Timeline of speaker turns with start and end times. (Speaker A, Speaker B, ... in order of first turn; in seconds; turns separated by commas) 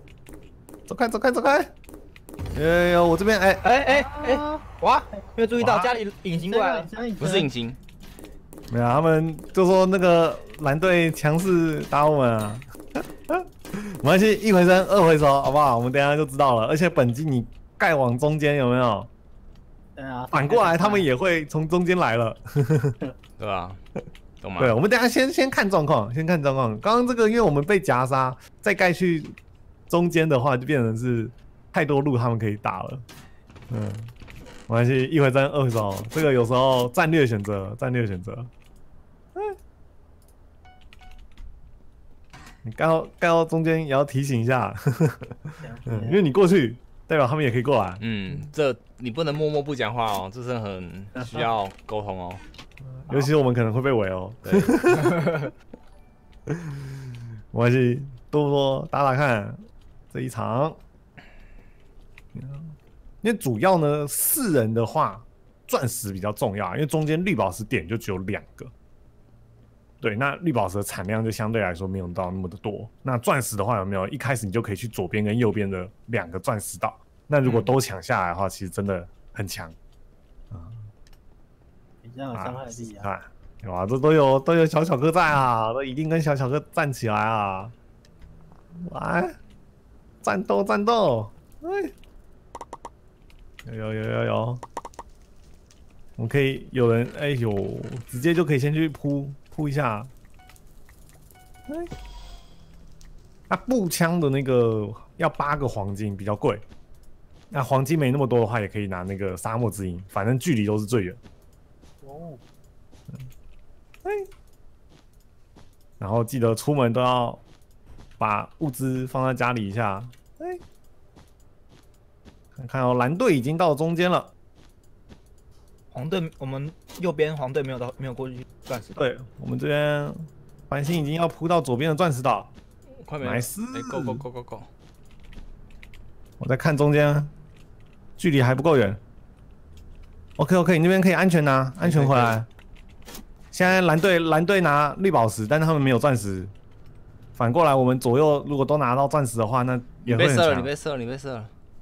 Speaker A: 0.9-1.7, Speaker A: 2.5-4.4, Speaker B: 3.6-6.9, Speaker C: 4.3-4.6, Speaker A: 5.6-5.9, Speaker C: 6.4-7.5, Speaker D: 7.2-7.8, Speaker A: 8.7-19.1, Speaker C: 20.0-21.0, Speaker A: 20.3-23.0, Speaker D: 23.4-23.8, Speaker D: 24.4-24.8, Speaker A: 24.6-29.4, Speaker A: 29.9-33.0, Speaker A: 33.7-34.1, Speaker A: 34.7-38.5, Speaker A: 42.6-48.0, Speaker C: 45.6-46.2, Speaker D: 48.0-52.4, Speaker A: 52.8-55.5, Speaker D: 54.5-54.7, Speaker B: 55.0-55.5, Speaker A: 56.5-56.9, Speaker A: 57.5-59.6, Speaker A: 60.1-60.8, Speaker A: 62.3-68.7, Speaker A: 70.0-79.8, Speaker B: 77.5-77.7, Speaker A: 80.5-80.9, Speaker C: 82.0-83.1, Speaker A: 82.3-87.7, Speaker A: 88.8-89.4, Speaker A: 90.2-91.9, Speaker A: 93.7-94.6, Speaker A: 96.2-100.1, Speaker A: 103.5-106.6, Speaker A: 107.5-111.2, Speaker C: 112.0-112.4, Speaker A: 116.0-117.4, Speaker A: 118.2-120.6, Speaker A: 122.5-124.3, Speaker B: 125.9-129.0, Speaker A: 129.0-132.5, Speaker D: 133.0-134.7, Speaker A: 133.2-134.2, Speaker A: 136.4-137.3, Speaker A: 138.2-139.0, Speaker A: 140.4-142.5, Speaker D: 141.8-142.4, Speaker A: 143.5-146.5, Speaker A: 147.4-150.7, Speaker D: 150.1-151.5